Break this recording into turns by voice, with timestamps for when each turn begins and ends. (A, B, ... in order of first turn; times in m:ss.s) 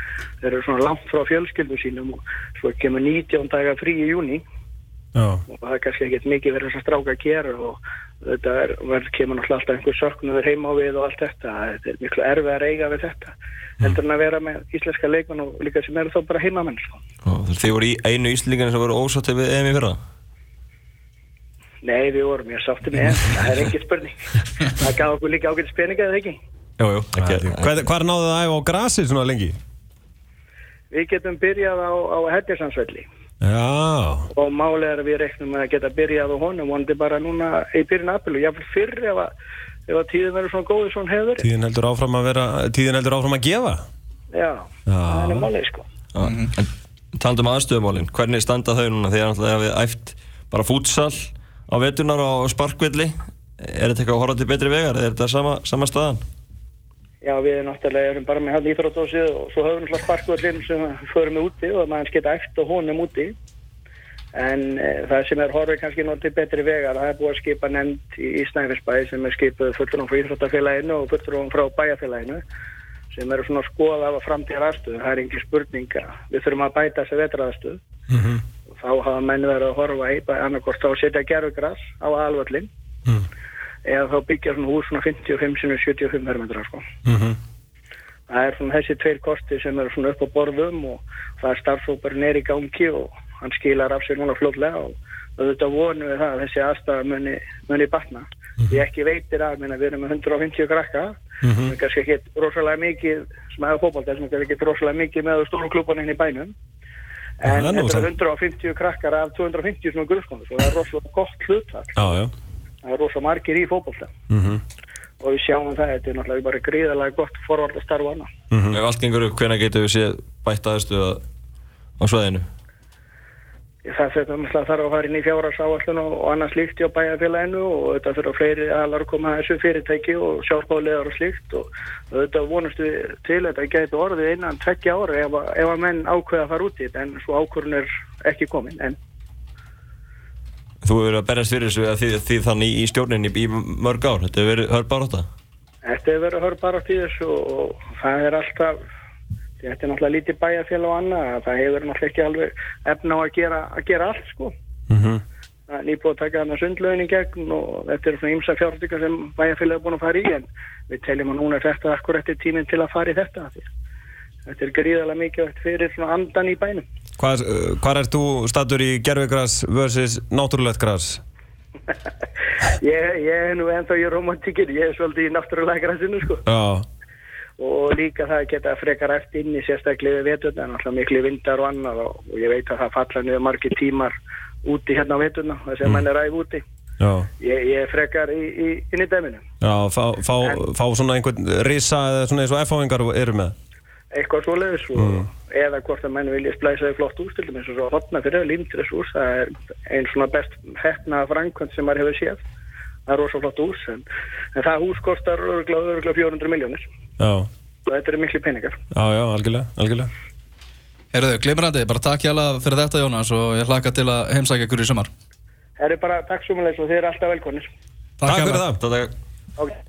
0:00.4-0:04.4 A
0:05.1-0:05.4 B
0:05.5-0:17.0 A
0:17.2-0:20.0 C
0:21.8-0:26.4 A
0:26.8-0:27.7 C
0:27.2-0:29.5 B
0:30.9-0:33.0 A
0:33.4-0:34.3 B
0:34.3-0:39.3 A
0:39.9-0:41.5 A
0:41.4-0:43.8 B
0:44.3-0:45.9 A
0:44.9-0:45.5 B
0:46.1-0:56.2 C
0:46.2-0:46.5 D
0:57.2-1:03.3 A
1:04.3-1:12.4 A
1:13.1-1:17.8 A
1:18.1-1:18.4 B
1:18.8-1:22.7 A
1:23.8-1:26.9 A
1:27.0-1:27.4 B
1:28.3-1:46.5 A
1:41.4-1:41.7 B
1:47.4-1:52.2 A
1:47.4-1:48.1 B
1:52.0-1:52.3 B
1:52.8-1:54.1 A
1:54.3-1:54.6 B
1:55.2-1:58.3 A
1:58.5-1:58.8 B
1:58.7-2:01.2 C
2:02.0-2:02.5 C
2:03.8-2:19.0 A
2:20.8-2:25.3 C
2:25.8-2:28.8 A
2:29.6-2:34.5 A
2:34.9-2:35.2 B
2:35.7-2:43.7 A
2:44.5-2:46.8 A
2:47.2-2:51.2 B
2:52.8-2:56.4 A
2:56.5-2:56.8 B
2:57.6-3:04.1 A
3:04.6-3:06.6 A
3:07.0-3:07.3 B
3:07.4-3:09.4 A
3:09.6-3:13.5 B
3:14.1-3:22.4 A
3:15.0-3:15.3 B
3:23.1-3:26.8 A
3:27.2-3:27.5 B
3:27.8-3:28.8 A
3:28.9-3:30.1 B
3:31.1-3:35.1 D
3:35.8-3:37.7 A
3:38.2-3:38.6 D
3:38.2-3:38.8 B
3:38.8-3:39.1 C